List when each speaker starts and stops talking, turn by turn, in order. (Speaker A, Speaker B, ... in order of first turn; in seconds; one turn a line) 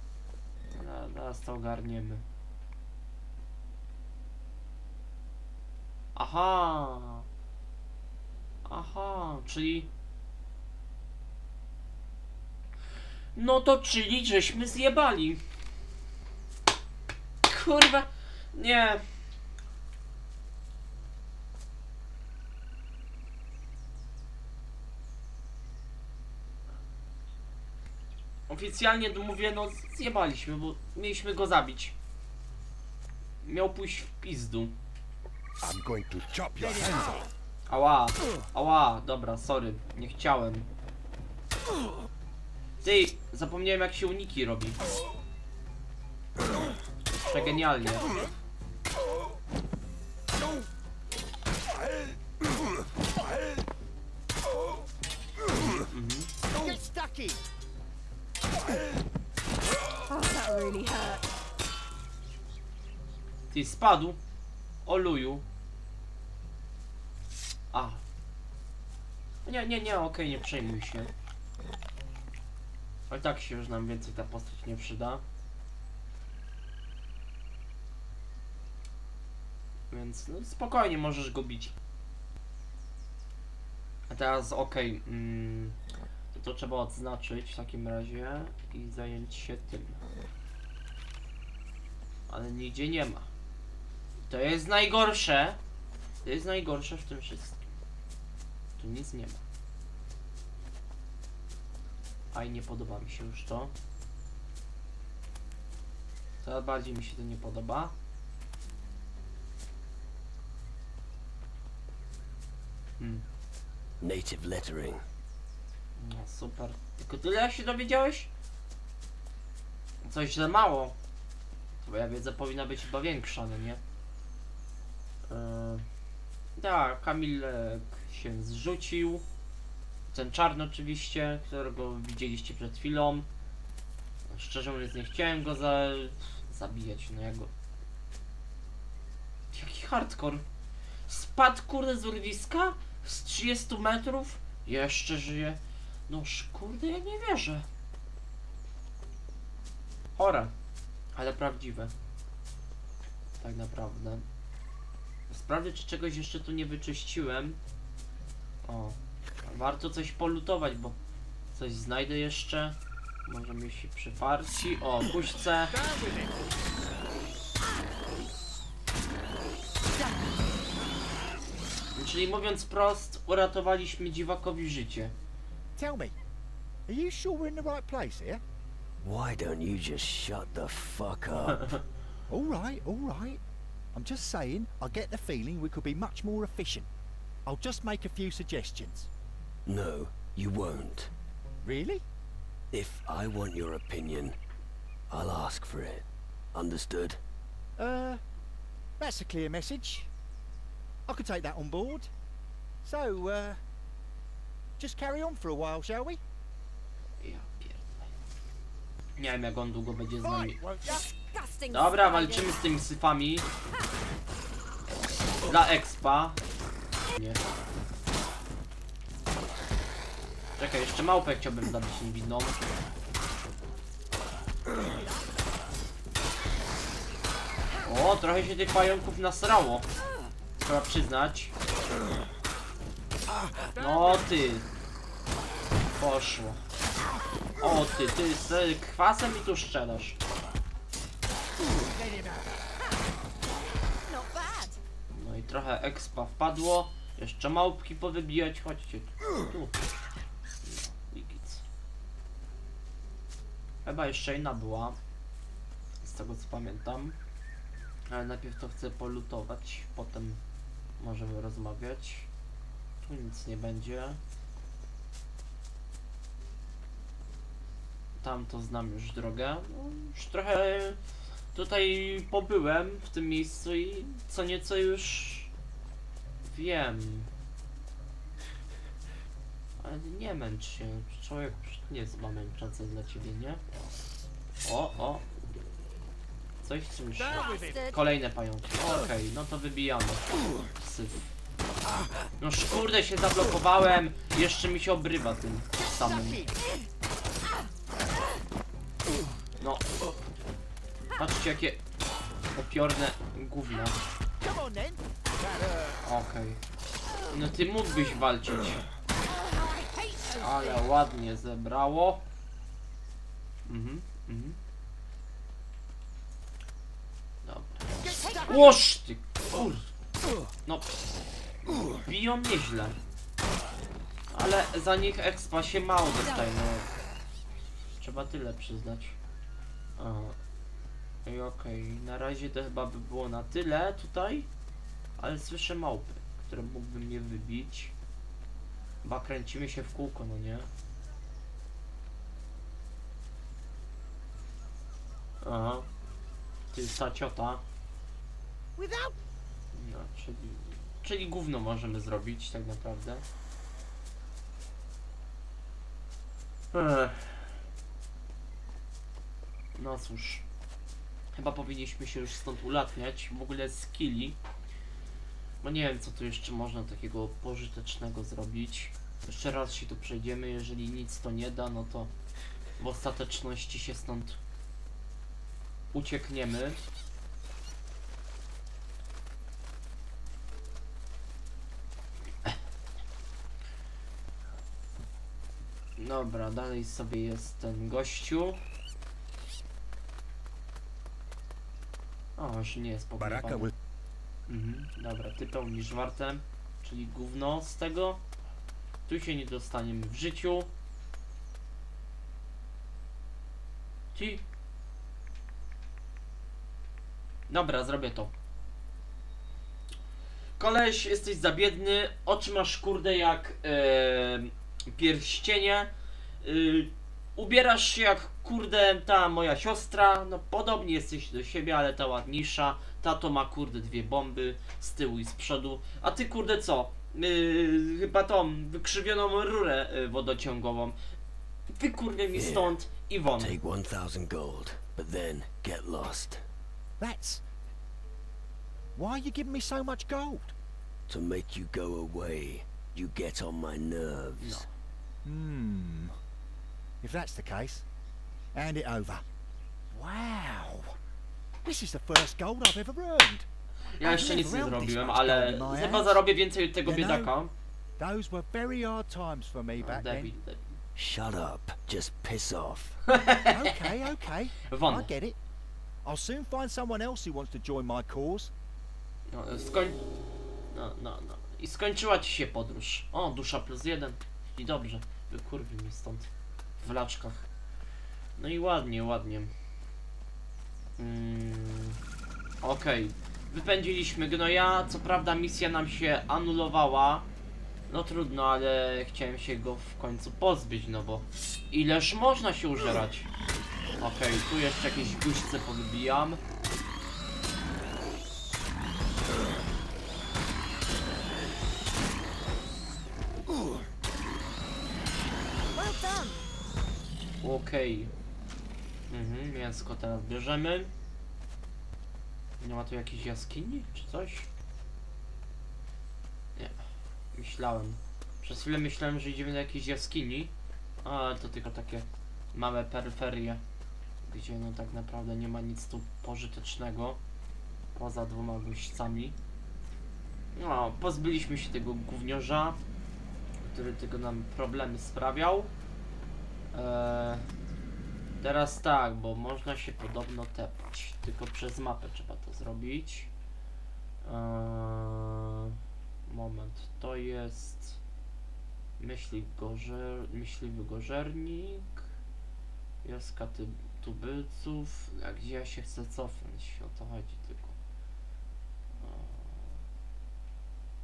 Speaker A: 0.7-2.2
Speaker A: 6.1-7.2
Speaker A: 8.7-9.9
Speaker A: 13.3-15.4
Speaker A: 17.4-19.0
Speaker A: 28.5-31.9
Speaker A: 33.4-34.7
Speaker B: 35.6-37.2
Speaker C: 36.5-37.2
Speaker A: 37.7-40.7
Speaker A: 42.8-44.8
Speaker A: 47.2-48.2
Speaker A: 55.5-56.3
Speaker C: 56.5-57.4
Speaker D: 60.1-61.2
Speaker A: 63.5-64.2
Speaker A: 64.8-65.4
Speaker A: 67.7-68.0
Speaker A: 69.4-71.1
Speaker A: 73.1-75.2
Speaker A: 79.9-81.7
Speaker A: 84.1-85.8
Speaker A: 86.3-90.0
Speaker A: 92.3-93.3
Speaker A: 94.2-95.6
Speaker A: 96.2-97.6
Speaker A: 98.8-99.4
Speaker A: 102.3-103.7
Speaker A: 106.4-107.9
Speaker A: 113.0-113.2
Speaker E: 114.0-115.0
Speaker A: 116.0-118.3
Speaker A: 120.0-121.0
Speaker A: 121.8-123.8
Speaker A: 125.3-125.8
Speaker A: 126.6-129.2
Speaker A: 130.1-133.3
Speaker A: 134.3-137.5
Speaker A: 139.5-140.4
Speaker A: 141.1-147.6
Speaker A: 150.2-150.5
Speaker A: 151.1-151.9
Speaker A: 153.4-154.2
Speaker A: 155.3-157.6
Speaker A: 158.6-160.9
Speaker A: 161.5-165.8
Speaker A: 171.9-175.1
Speaker C: 175.8-176.2
Speaker C: 176.9-178.4
Speaker E: 179.0-181.8
Speaker C: 182.3-183.4
Speaker C: 183.9-186.9
Speaker C: 187.4-189.1
Speaker E: 189.7-191.1
Speaker C: 191.6-192.0
Speaker E: 192.7-194.3
Speaker E: 195.1-197.2
Speaker C: 197.8-198.2
Speaker C: 199.0-200.1
Speaker C: 201.1-202.1
Speaker C: 202.8-203.6
Speaker C: 204.8-206.2
Speaker A: 207.2-208.1
Speaker A: 209.2-210.6
Speaker C: 210.4-211.0
Speaker D: 210.8-212.6
Speaker A: 211.7-213.4
Speaker A: 215.4-216.4
Speaker A: 217.1-217.4
Speaker A: 220.6-222.6
Speaker A: 227.8-229.9
Speaker A: 230.6-231.5
Speaker A: 233.8-234.7
Speaker A: 235.9-236.6
Speaker A: 237.6-240.2
Speaker C: 241.8-242.5
Speaker D: 244.1-244.8
Speaker A: 245.1-249.9
Speaker A: 250.6-251.6
Speaker A: 253.8-255.0
Speaker A: 256.0-257.2
Speaker A: 258.1-260.4
Speaker A: 261.0-262.3
Speaker A: 263.0-264.2
Speaker A: 268.2-271.0
Speaker A: 271.5-275.5
Speaker A: 276.4-277.3
Speaker A: 279.8-283.6
Speaker A: 284.6-285.2
Speaker A: 286.6-290.2
Speaker D: 287.3-287.9
Speaker A: 290.8-291.3
Speaker A: 292.4-296.4
Speaker C: 295.8-296.6
Speaker A: 299.6-299.9
Speaker A: 301.2-301.8
Speaker A: 302.5-304.0
Speaker C: 304.4-306.0
Speaker A: 306.0-306.6
Speaker A: 307.3-308.8
Speaker D: 309.6-310.8
Speaker A: 310.3-312.2
Speaker A: 313.6-314.6
Speaker A: 317.4-319.9
Speaker C: 318.0-318.8
Speaker A: 320.6-320.9
Speaker A: 321.7-323.0
Speaker A: 324.3-326.9
Speaker A: 328.0-329.2
Speaker A: 330.0-330.4
Speaker A: 331.2-334.5
Speaker A: 335.2-337.9
Speaker A: 339.0-340.7
Speaker A: 345.4-345.9
Speaker A: 346.7-347.6
Speaker D: 348.8-349.1
Speaker A: 349.7-353.2
Speaker A: 356.7-357.5
Speaker A: 359.8-360.4
Speaker A: 361.3-364.4
Speaker A: 365.6-372.1
Speaker A: 372.8-374.4
Speaker A: 375.9-376.8
Speaker A: 386.0-388.6
Speaker A: 392.4-393.7
Speaker B: 393.2-393.7
Speaker A: 394.5-398.2
Speaker A: 399.1-400.7
Speaker A: 404.1-404.4
Speaker A: 407.5-408.3
Speaker A: 410.6-415.9
Speaker A: 416.4-430.9
Speaker A: 431.7-433.6
Speaker E: 432.3-432.7
Speaker E: 433.4-436.4
Speaker C: 437.0-437.4
Speaker C: 438.9-440.5
Speaker E: 441.1-444.7
Speaker A: 444.4-444.7
Speaker C: 445.2-446.1
Speaker C: 447.0-447.8
Speaker C: 448.5-449.2
Speaker C: 449.9-450.9
Speaker C: 451.6-453.5
Speaker A: 453.9-457.5
Speaker C: 454.0-456.2
Speaker C: 456.8-457.3
Speaker C: 458.0-460.3
Speaker A: 459.8-460.7
Speaker E: 460.9-463.0
Speaker A: 463.1-463.8
Speaker C: 463.4-465.4
Speaker A: 464.7-465.1
Speaker C: 466.0-468.5
Speaker A: 469.3-470.0
Speaker A: 470.7-477.5
Speaker A: 478.4-479.5
Speaker A: 481.0-482.0
Speaker A: 482.6-487.3
Speaker A: 487.9-493.3
Speaker A: 494.0-496.4
Speaker C: 505.7-506.4
Speaker A: 507.4-508.1
Speaker A: 509.1-510.9
Speaker A: 512.6-514.5
Speaker A: 517.3-520.5
Speaker A: 521.0-523.6
Speaker A: 524.2-527.2
Speaker A: 527.9-529.4
Speaker A: 530.5-532.8
Speaker A: 533.6-535.7
Speaker A: 536.7-537.5
Speaker A: 538.4-543.3
Speaker A: 544.2-548.0
Speaker A: 549.0-552.1
Speaker A: 553.0-557.8
Speaker A: 559.0-559.8